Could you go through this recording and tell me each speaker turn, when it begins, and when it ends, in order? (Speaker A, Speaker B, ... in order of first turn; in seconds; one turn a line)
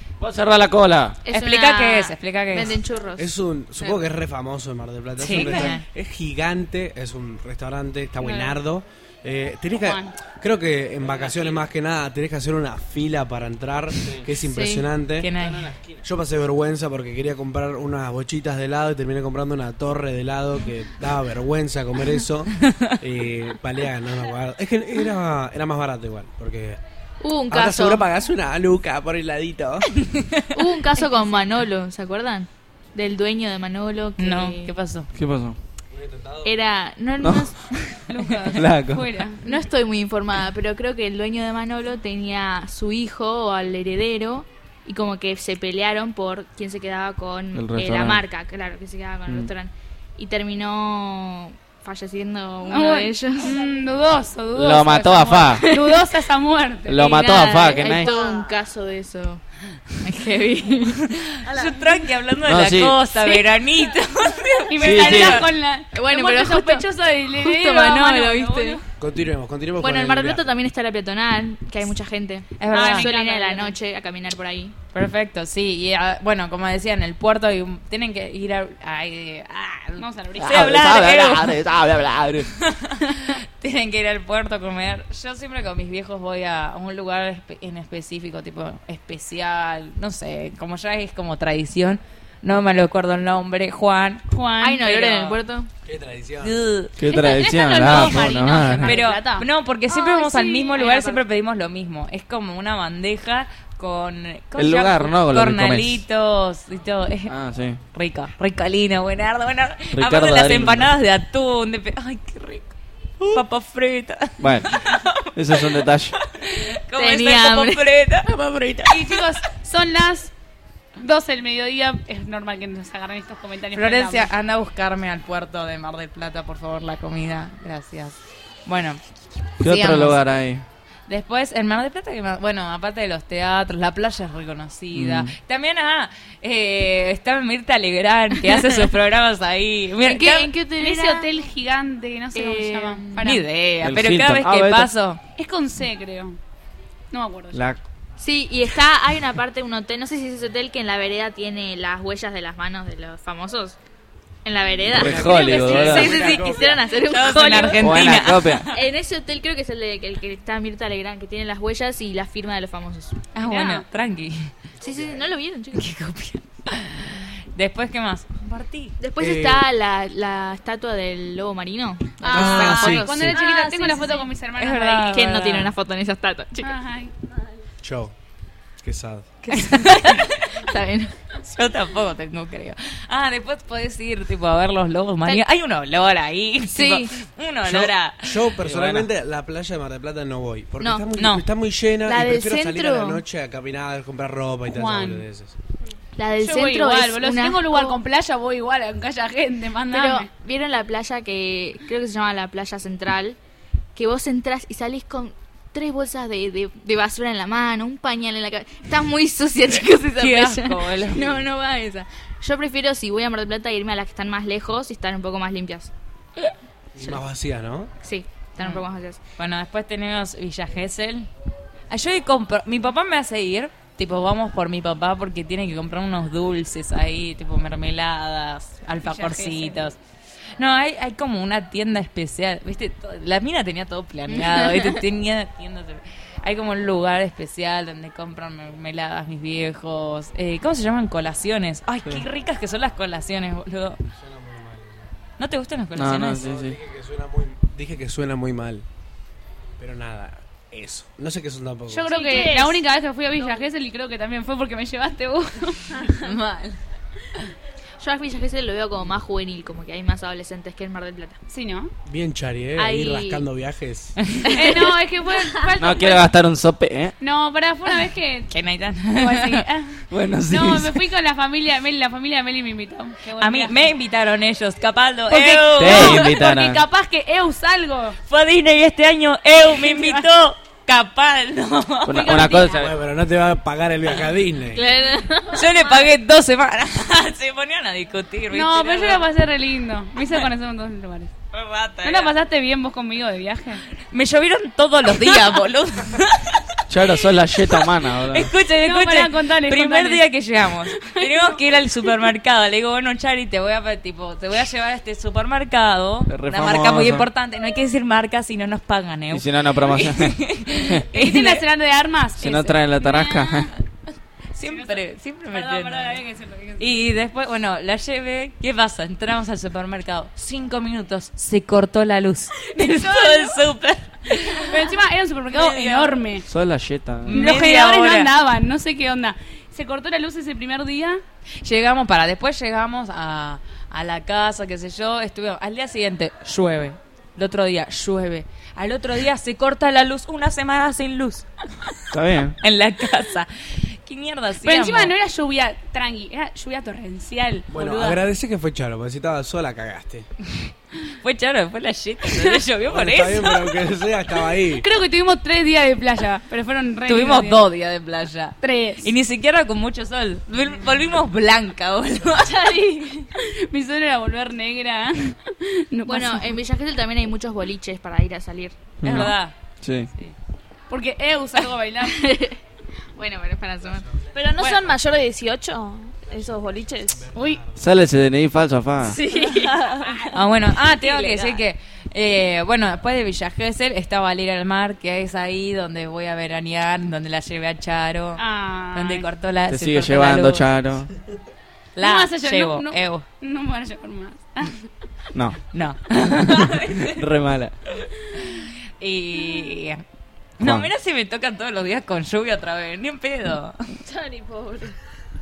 Speaker A: 0.2-1.2
Speaker B: 1.2-4.1
Speaker C: 1.3-2.8
Speaker D: 3.2-15.3
Speaker C: 5.2-5.8
Speaker E: 8.2-8.6
Speaker E: 9.8-10.2
Speaker B: 14.4-14.9
Speaker C: 15.2-15.7
Speaker D: 16.0-26.8
Speaker B: 27.2-28.1
Speaker D: 27.5-29.9
Speaker C: 30.1-30.5
Speaker B: 30.5-34.7
Speaker C: 34.2-35.1
Speaker A: 35.1-35.6
Speaker D: 35.9-36.5
Speaker B: 36.4-38.0
Speaker A: 37.2-37.5
Speaker E: 38.1-39.4
Speaker A: 38.5-39.1
Speaker B: 39.4-53.6
Speaker A: 47.5-48.2
Speaker E: 52.7-57.2
Speaker A: 54.5-55.7
Speaker B: 55.6-56.0
Speaker A: 56.9-58.1
Speaker B: 57.0-59.4
Speaker F: 58.0-58.5
Speaker B: 60.0-61.1
Speaker C: 61.2-65.5
Speaker A: 62.4-63.0
Speaker E: 64.7-68.8
Speaker A: 64.8-65.5
Speaker B: 65.9-68.8
Speaker D: 69.0-70.4
Speaker B: 69.8-74.8
Speaker C: 72.6-73.1
Speaker E: 72.7-73.8
Speaker C: 74.9-81.6
Speaker E: 80.0-80.8
Speaker A: 80.4-82.5
Speaker C: 82.5-94.2
Speaker E: 94.3-95.1
Speaker B: 94.6-95.7
Speaker C: 94.8-95.3
Speaker D: 95.8-96.6
Speaker C: 96.4-96.9
Speaker A: 97.0-99.0
Speaker E: 97.1-101.2
Speaker C: 97.8-107.3
Speaker A: 104.5-106.0
Speaker A: 107.3-107.8
Speaker C: 107.9-112.7
Speaker A: 109.9-110.9
Speaker C: 113.3-118.3
Speaker A: 114.4-114.7
Speaker A: 115.3-116.2
Speaker B: 116.9-117.9
Speaker A: 118.3-118.9
Speaker E: 118.9-120.3
Speaker E: 121.0-124.3
Speaker C: 123.7-129.0
Speaker C: 129.6-130.2
Speaker A: 129.6-130.6
Speaker C: 131.1-140.5
Speaker A: 134.9-135.3
Speaker B: 140.0-141.3
Speaker E: 140.8-143.4
Speaker B: 142.3-143.3
Speaker C: 143.2-145.2
Speaker A: 143.8-144.9
Speaker E: 145.4-146.4
Speaker E: 147.1-147.6
Speaker A: 147.5-147.8
Speaker B: 148.2-153.8
Speaker B: 154.4-163.2
Speaker A: 154.9-156.3
Speaker D: 154.9-156.9
Speaker C: 156.9-158.9
Speaker A: 157.8-158.7
Speaker C: 163.3-164.5
Speaker E: 163.4-163.8
Speaker D: 164.8-165.2
Speaker B: 164.8-165.9
Speaker C: 165.7-168.9
Speaker B: 169.0-174.1
Speaker D: 169.2-169.6
Speaker E: 172.2-175.3
Speaker A: 172.3-173.3
Speaker C: 174.5-175.7
Speaker B: 175.1-176.8
Speaker E: 176.6-177.1
Speaker D: 177.8-178.1
Speaker D: 178.8-179.3
Speaker C: 179.4-180.5
Speaker B: 179.5-181.1
Speaker C: 181.4-188.5
Speaker B: 186.7-187.2
Speaker D: 187.7-195.5
Speaker A: 188.6-189.1
Speaker B: 190.8-191.1
Speaker C: 191.1-191.4
Speaker B: 192.0-193.2
Speaker E: 194.7-195.2
Speaker B: 196.2-198.0
Speaker E: 196.4-200.3
Speaker B: 199.9-203.4
Speaker B: 203.9-215.9
Speaker C: 210.1-211.4
Speaker D: 216.9-217.9
Speaker B: 218.0-219.2
Speaker C: 218.6-218.8
Speaker C: 219.4-221.3
Speaker C: 221.9-230.0
Speaker E: 229.0-229.9
Speaker C: 230.6-244.0
Speaker B: 234.3-235.0
Speaker D: 244.1-245.1
Speaker C: 245.4-246.4
Speaker A: 245.9-246.8
Speaker D: 246.4-248.8
Speaker D: 249.8-252.1
Speaker E: 251.9-256.0
Speaker F: 252.1-252.8
Speaker C: 256.2-256.8
Speaker B: 258.0-261.4
Speaker E: 261.5-261.9
Speaker D: 262.1-264.1
Speaker B: 262.8-263.5
Speaker C: 264.3-264.6
Speaker B: 264.4-264.9
Speaker E: 264.5-266.3
Speaker A: 265.8-267.1
Speaker E: 267.2-268.5
Speaker C: 268.5-269.6
Speaker E: 269.1-273.9
Speaker A: 270.1-271.0
Speaker C: 273.4-276.3
Speaker E: 275.3-278.2
Speaker A: 275.8-276.8
Speaker C: 278.3-282.6
Speaker E: 279.7-280.3
Speaker A: 282.0-282.9
Speaker E: 282.1-282.7
Speaker D: 282.8-284.8
Speaker B: 284.7-285.8
Speaker C: 285.5-289.3
Speaker E: 288.5-291.3
Speaker C: 291.5-292.3
Speaker E: 292.0-293.8
Speaker C: 294.0-297.1
Speaker A: 296.9-298.5
Speaker C: 297.7-311.6
Speaker E: 298.8-300.3
Speaker E: 301.0-301.6
Speaker A: 306.3-307.3
Speaker A: 309.3-311.0
Speaker E: 311.1-313.5
Speaker A: 312.4-313.7
Speaker C: 314.5-316.2
Speaker E: 314.6-317.0
Speaker C: 316.8-324.9
Speaker E: 322.8-323.6
Speaker E: 324.5-326.4
Speaker C: 325.5-326.2
Speaker A: 326.5-327.5
Speaker C: 327.2-328.3
Speaker E: 327.3-331.2
Speaker C: 331.6-341.5
Speaker A: 342.1-342.6
Speaker C: 342.6-345.1
Speaker E: 344.6-348.2
Speaker D: 347.7-350.3
Speaker C: 351.2-353.6
Speaker D: 352.9-354.9
Speaker E: 354.7-357.6
Speaker C: 357.1-362.7
Speaker E: 358.6-359.1
Speaker B: 362.4-363.3
Speaker E: 363.4-366.6
Speaker B: 366.1-368.8
Speaker A: 369.0-370.1
Speaker C: 369.0-369.6
Speaker E: 370.9-372.2
Speaker B: 372.0-372.6
Speaker B: 373.1-374.1
Speaker F: 374.3-377.3
Speaker D: 377.2-377.8
Speaker E: 377.3-377.6
Speaker A: 377.8-379.2
Speaker B: 379.1-379.7
Speaker F: 379.2-380.4
Speaker C: 380.3-390.7
Speaker F: 380.9-381.6
Speaker E: 388.4-389.3
Speaker A: 389.7-391.1
Speaker C: 391.9-393.2
Speaker E: 392.0-394.8
Speaker A: 395.3-395.6
Speaker C: 395.7-397.2
Speaker A: 396.4-397.7
Speaker C: 398.3-400.0
Speaker C: 400.6-403.8
Speaker A: 400.6-400.9
Speaker F: 404.1-404.8